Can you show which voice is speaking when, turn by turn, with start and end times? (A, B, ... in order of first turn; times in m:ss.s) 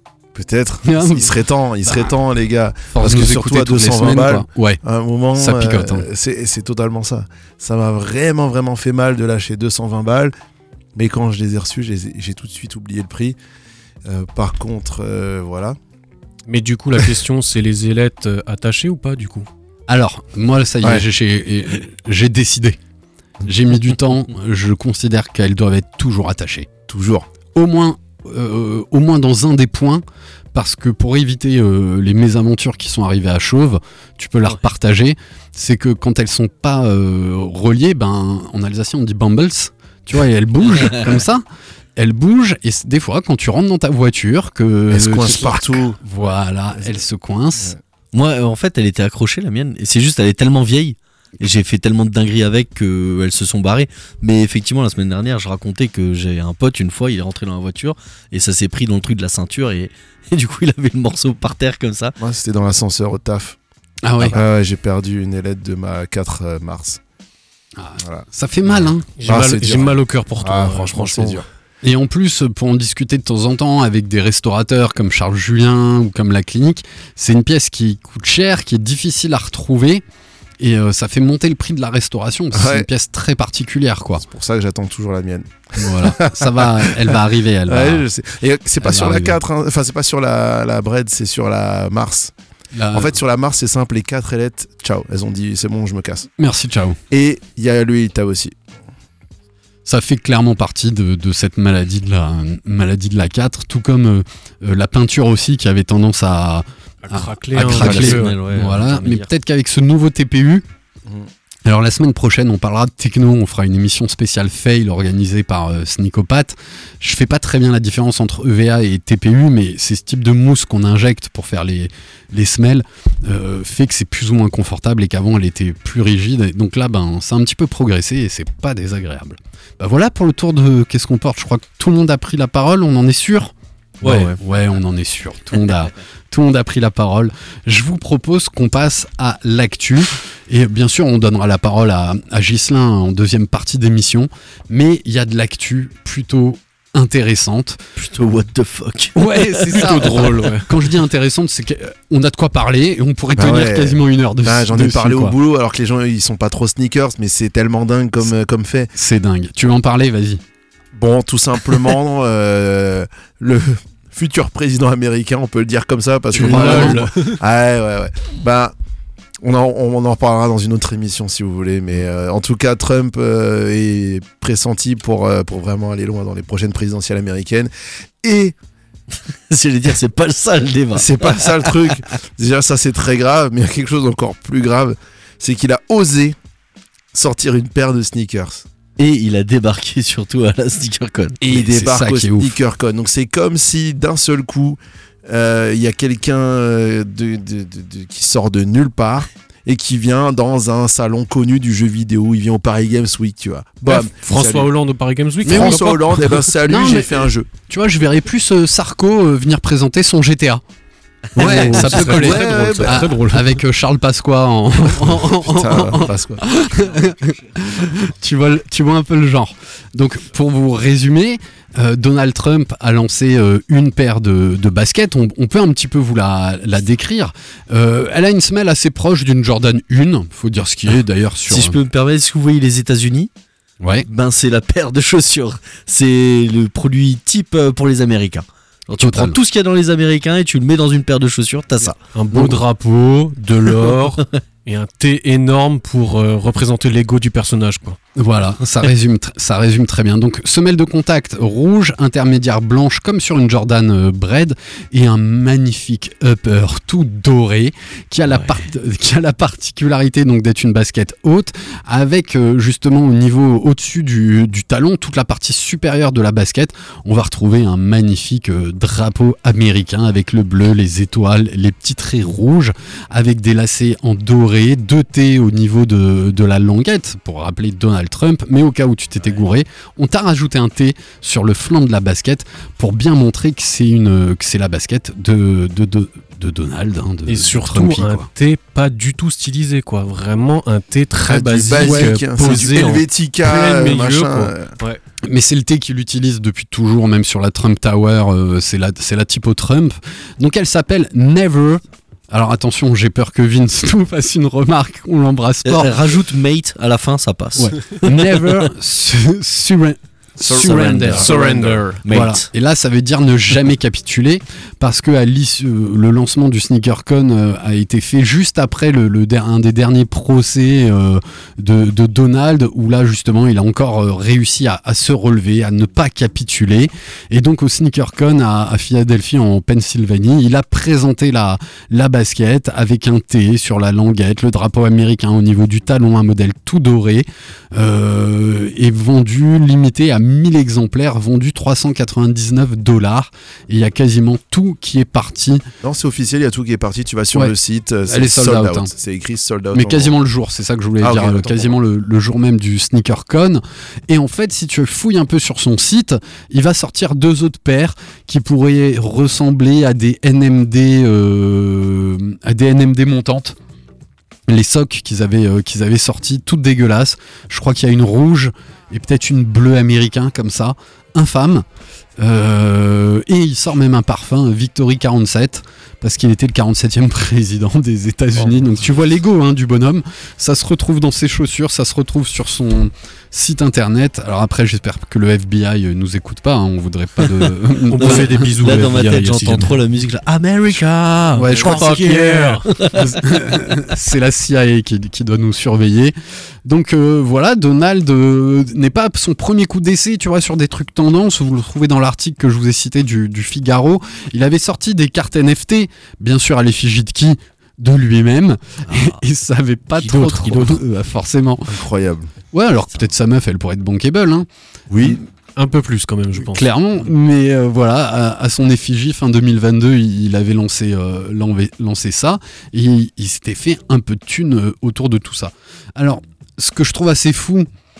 0:00.4-0:10.3 A
0:00.8-0:02.1 B
0:02.9-0:04.8 B
0:05.4-0:06.1 B
0:11.0-0:13.4 A
0:14.1-0:15.8 A
0:16.5-0:19.5 C
0:19.9-0:22.8 B
0:23.4-0:26.7 B
0:26.9-0:27.3 A
0:27.5-0:41.4 B
0:40.8-0:41.1 D
0:42.0-0:47.7 B
0:44.9-0:46.0 A
0:48.1-1:02.2 D
1:02.2-1:03.6 A
1:04.0-1:04.4 B
1:04.3-1:07.0 A
1:07.8-1:09.1 B
1:08.0-1:11.4 A
1:09.2-1:11.4 C
1:11.8-1:20.0 B
1:20.6-1:24.2 B
1:22.5-1:22.9 A
1:24.2-1:32.3 A
1:25.8-1:28.1 B
1:28.8-1:29.4 B
1:32.7-1:33.2 B
1:32.9-1:36.3 A
1:36.4-1:37.0 B
1:37.1-1:38.6 A
1:39.9-1:50.6 B
1:47.0-1:48.4 C
1:47.6-1:49.3 D
1:51.6-2:27.8 B
2:14.0-2:14.4 D
2:28.0-2:30.3 D
2:29.2-2:35.4 B
2:29.7-2:30.7 C
2:33.3-2:38.9 A
2:39.0-2:40.4 B
2:41.0-2:48.7 A
2:46.3-2:47.1 B
2:46.3-2:47.4 C
2:49.4-2:57.7 A
2:58.2-2:58.6 A
2:59.5-3:02.0 D
3:01.0-3:06.4 A
3:07.1-3:08.6 A
3:09.0-3:11.7 D
3:11.4-3:24.7 A
3:11.5-3:12.6 B
3:23.8-3:26.4 C
3:25.4-3:30.6 B
3:25.5-3:27.5 A
3:31.4-3:33.6 C
3:31.4-3:51.8 B
3:31.4-3:33.1 A
3:35.0-3:36.4 A
3:51.5-3:53.3 D
3:53.8-3:54.1 B
3:54.1-4:02.0 D
3:59.0-3:59.4 B
4:02.1-4:08.0 C
4:08.2-4:48.3 B
4:47.3-4:55.0 C
4:51.3-4:54.7 A
4:51.8-4:52.2 B
4:55.2-5:06.1 B
5:05.7-5:08.7 D
5:07.6-5:11.3 B
5:10.4-5:11.8 A
5:10.5-5:11.2 D
5:11.1-5:12.0 C
5:12.0-5:12.5 D
5:12.1-5:45.6 B
5:45.8-5:50.1 A
5:48.1-5:48.9 B
5:49.7-6:03.6 B
5:51.0-5:51.8 A
6:04.5-6:11.7 B
6:12.2-6:28.5 B
6:27.9-6:29.8 C
6:28.0-6:33.2 D
6:31.3-6:32.2 B
6:31.5-6:32.6 C
6:33.0-6:51.9 B
6:48.9-6:49.2 D
6:50.0-6:50.8 C
6:51.7-6:52.3 A
6:52.5-6:54.5 B
6:54.9-6:55.2 A
6:55.6-6:56.7 C
6:56.4-7:07.7 B